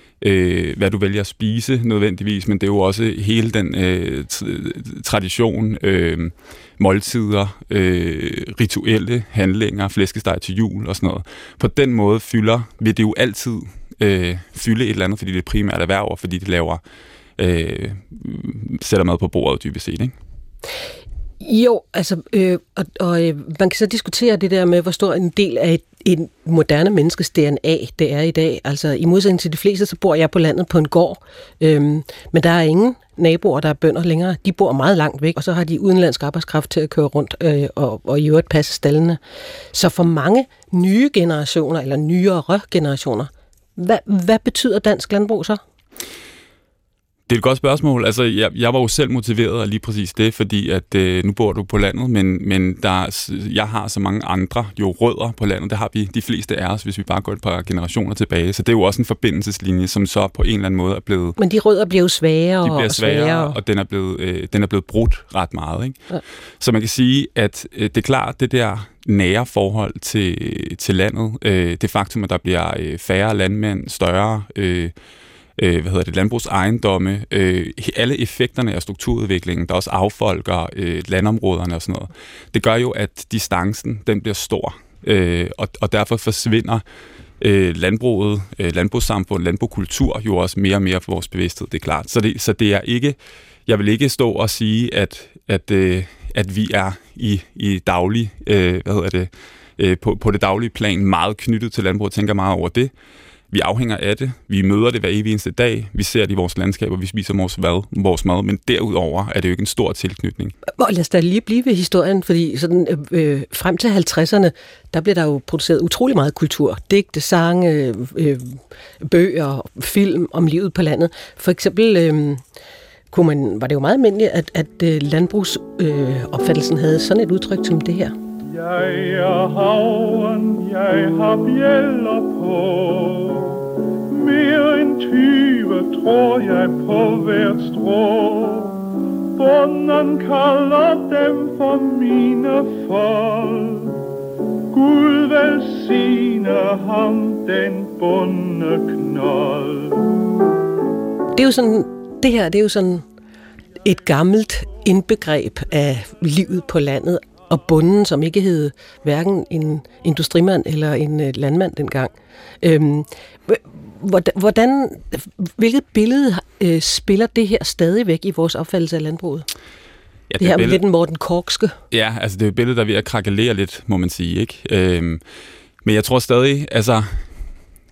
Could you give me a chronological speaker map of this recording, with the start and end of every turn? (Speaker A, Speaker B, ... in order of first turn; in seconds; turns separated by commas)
Speaker A: 0.2-16.8, Speaker A: 17.4-20.1, Speaker B: 21.4-39.2, Speaker B: 39.7-45.6, Speaker A: 47.3-61.4, Speaker B: 61.4-63.6, Speaker A: 62.6-66.0, Speaker A: 66.6-74.9, Speaker A: 75.6-86.8, Speaker A: 87.4-102.9, Speaker A: 103.5-110.5, Speaker B: 110.8-122.4, Speaker B: 123.1-128.2, Speaker C: 128.5-144.0, Speaker C: 144.7-150.1, Speaker B: 151.3-153.0, Speaker B: 153.8-169.5, Speaker A: 170.3-170.8, Speaker B: 170.4-171.8, Speaker A: 171.9-175.2, Speaker A: 175.8-177.3